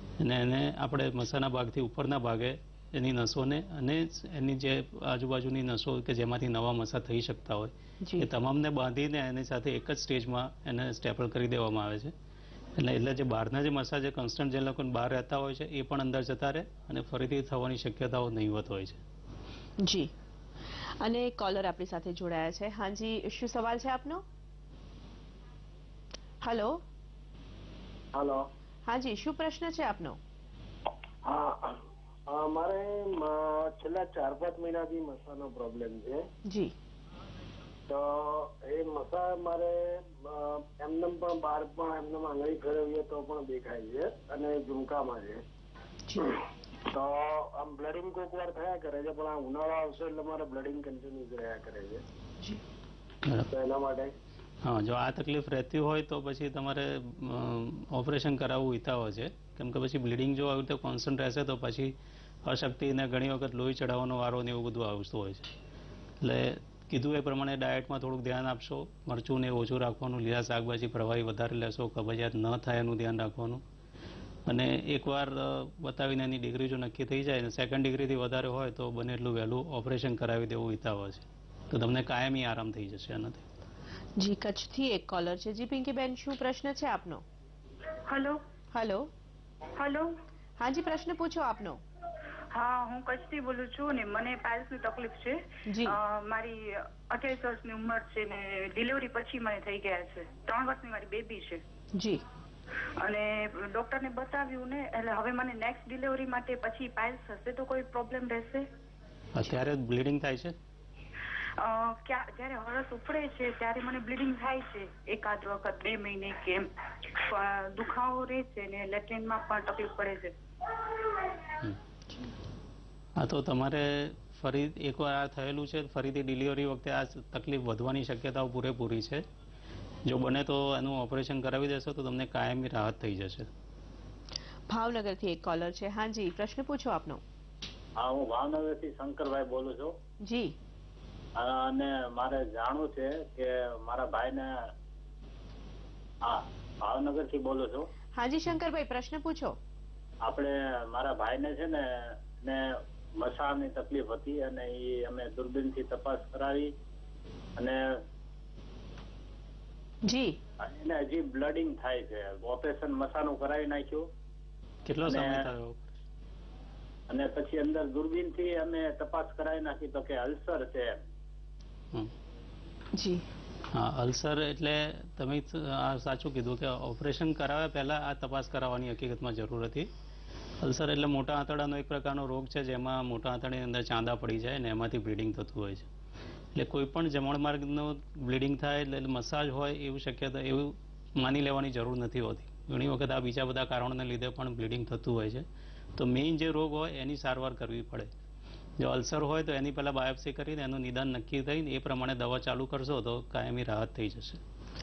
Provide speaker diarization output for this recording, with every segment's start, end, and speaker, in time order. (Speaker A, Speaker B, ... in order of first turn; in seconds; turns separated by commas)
Speaker A: 0.2-12.1, Speaker B: 8.0-8.3, Speaker A: 12.8-19.0, Speaker B: 19.8-20.1, Speaker B: 21.0-24.2, Speaker B: 26.4-26.8, Speaker C: 28.1-28.4, Speaker B: 28.9-30.2, Speaker C: 31.2-36.2, Speaker B: 36.4-36.7, Speaker C: 37.9-45.4, Speaker C: 46.9-52.0, Speaker C: 53.5-54.1, Speaker A: 54.6-61.9, Speaker A: 62.4-65.5, Speaker A: 66.2-73.6, Speaker A: 74.5-83.4, Speaker B: 84.2-87.2, Speaker D: 88.1-88.4, Speaker B: 88.7-89.1, Speaker D: 89.8-90.1, Speaker B: 90.6-91.8, Speaker D: 92.5-101.6, Speaker B: 95.7-96.0, Speaker B: 101.9-102.2, Speaker D: 103.0-108.7, Speaker A: 109.3-110.5, Speaker D: 111.6-120.3, Speaker D: 120.9-121.2, Speaker A: 123.2-129.2, Speaker A: 130.1-133.5, Speaker B: 134.7-137.2, Speaker E: 138.0-139.9, Speaker B: 140.2-140.6, Speaker E: 141.3-144.7, Speaker E: 146.2-147.9, Speaker B: 148.1-149.6, Speaker E: 150.2-156.7, Speaker E: 157.6-158.0, Speaker B: 160.0-160.4, Speaker E: 160.6-164.1, Speaker A: 164.8-165.9, Speaker E: 165.0-165.5, Speaker E: 167.1-171.0, Speaker B: 172.9-173.2, Speaker A: 173.7-179.9, Speaker A: 180.6-185.9, Speaker A: 186.5-195.4, Speaker A: 195.9-198.1, Speaker A: 198.8-204.4